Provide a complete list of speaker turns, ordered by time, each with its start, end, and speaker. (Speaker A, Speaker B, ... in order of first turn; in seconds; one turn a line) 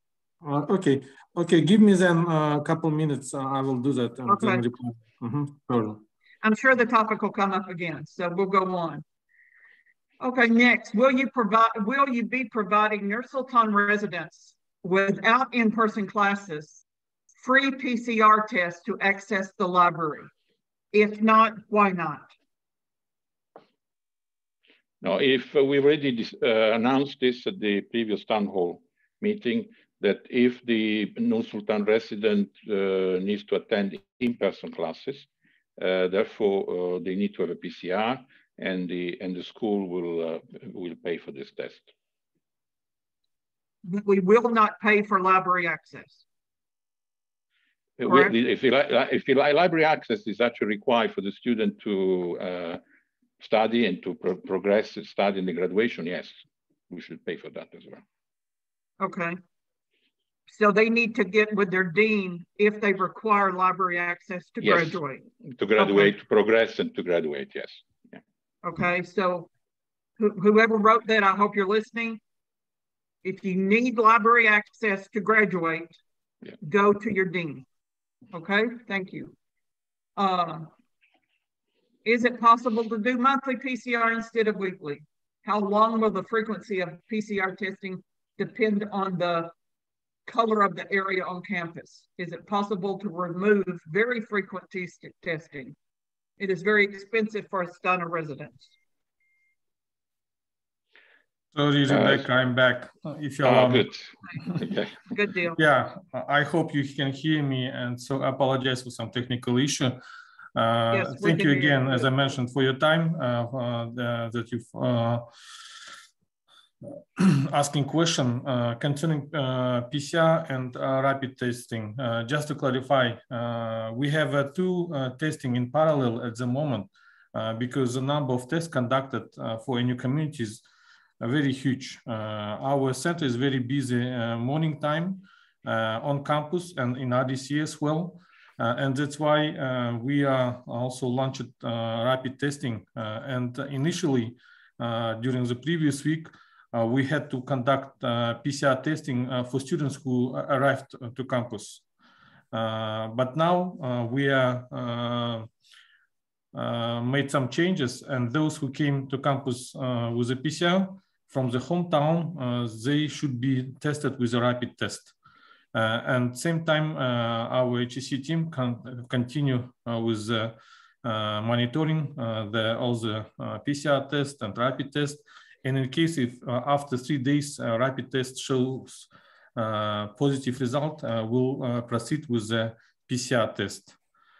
Speaker A: 0.4-6.0
Speaker B: 4.2-4.6
Speaker B: 6.4-9.0
Speaker B: 10.2-16.8
Speaker B: 17.4-20.3
Speaker B: 20.9-22.3
Speaker C: 25.0-35.3
Speaker C: 35.8-41.9
Speaker B: 43.8-46.2
Speaker C: 48.0-52.8
Speaker B: 48.0-48.3
Speaker C: 53.4-56.4
Speaker C: 56.9-58.0
Speaker B: 59.0-59.4
Speaker B: 60.5-65.2
Speaker C: 64.6-65.0
Speaker C: 65.5-68.2
Speaker B: 65.8-66.1
Speaker B: 68.6-69.5
Speaker B: 70.2-72.2
Speaker B: 73.2-76.0
Speaker B: 76.6-77.6
Speaker B: 78.3-79.3
Speaker B: 80.2-80.7
Speaker B: 82.0-89.5
Speaker B: 90.2-95.7
Speaker B: 96.4-98.7
Speaker A: 101.5-103.9
Speaker C: 101.8-102.2
Speaker C: 103.4-105.1
Speaker B: 105.1-105.6
Speaker A: 105.6-110.0
Speaker A: 110.5-115.2
Speaker B: 110.9-112.1
Speaker A: 117.2-130.6
Speaker A: 131.2-151.8
Speaker A: 152.5-155.5
Speaker A: 156.5-165.1
Speaker A: 165.7-183.9